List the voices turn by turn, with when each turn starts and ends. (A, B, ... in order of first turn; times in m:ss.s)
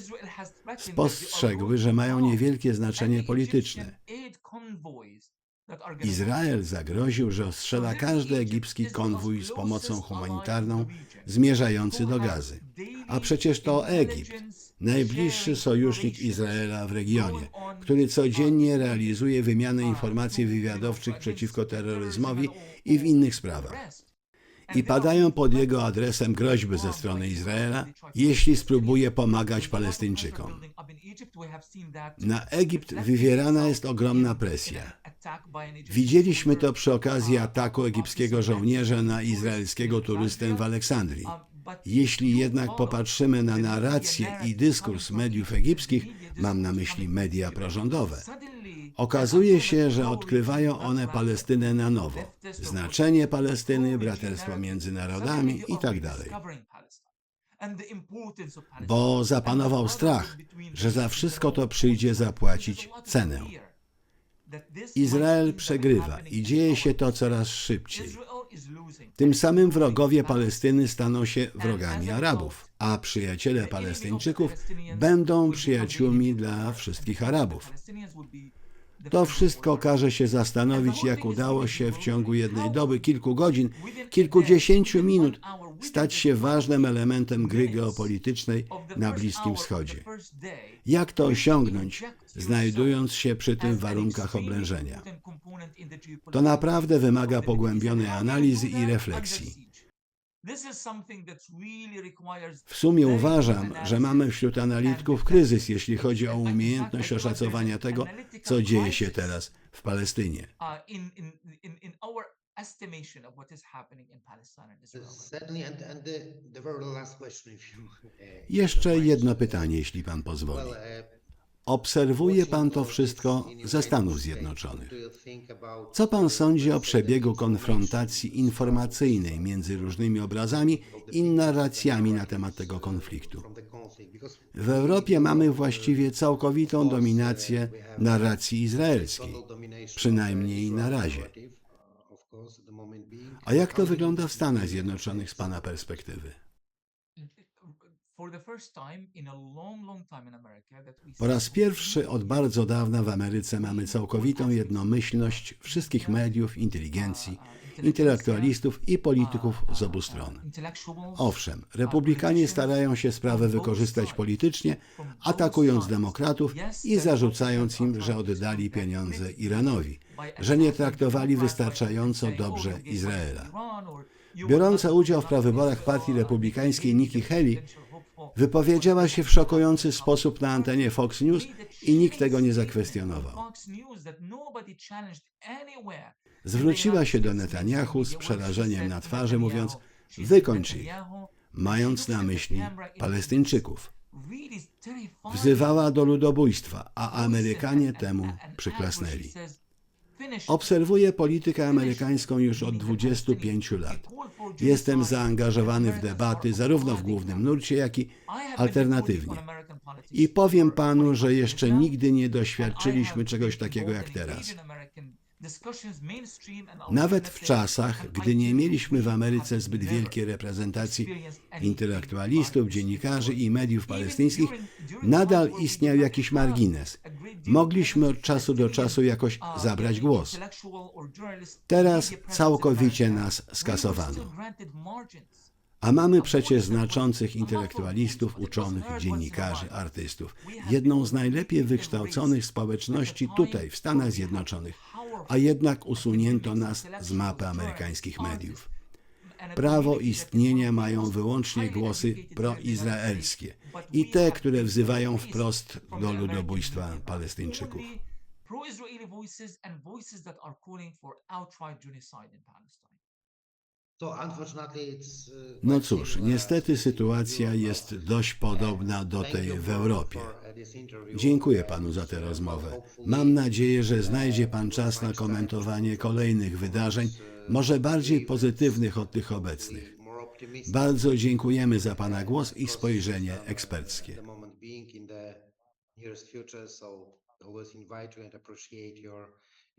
0:00.8-0:04.0 A
0:06.0-0:23.8 A
0:24.7-0:30.6 A
0:32.2-0:34.9 A
0:35.9-0:48.3 A
0:49.0-0:56.4 A
0:58.8-1:03.5 A
1:04.9-1:08.2 A
1:09.2-1:17.7 A
1:19.1-1:30.1 A
1:30.8-1:35.1 A
1:36.3-1:39.6 A
1:40.6-1:41.9 B
1:42.7-1:50.5 A
1:51.2-1:54.9 B
1:55.0-1:57.8 C
1:58.5-2:00.8 A
2:01.6-2:04.9 A
2:05.9-2:13.4 A
2:14.5-2:19.4 A
2:19.9-2:21.3 A
2:22.3-2:23.0 C
2:23.4-2:26.4 A
2:28.2-2:30.5 B
2:31.2-2:40.4 A
2:41.1-2:53.5 A
2:54.4-2:57.6 A
2:58.3-3:03.4 A
3:06.4-3:11.0 A
3:11.5-3:13.9 A
3:15.3-3:19.3 A
3:20.5-3:29.4 A
3:30.1-3:34.6 A
3:36.9-3:50.4 A
3:51.7-3:54.3 A
3:55.8-4:08.7 A
4:09.6-4:17.9 A
4:19.0-4:20.9 B
4:21.6-4:22.7 B
4:24.1-4:25.2 C
4:25.6-4:30.3 A
4:31.1-4:39.9 A
4:40.6-4:44.2 A
4:44.6-4:45.3 C
4:46.1-4:49.2 C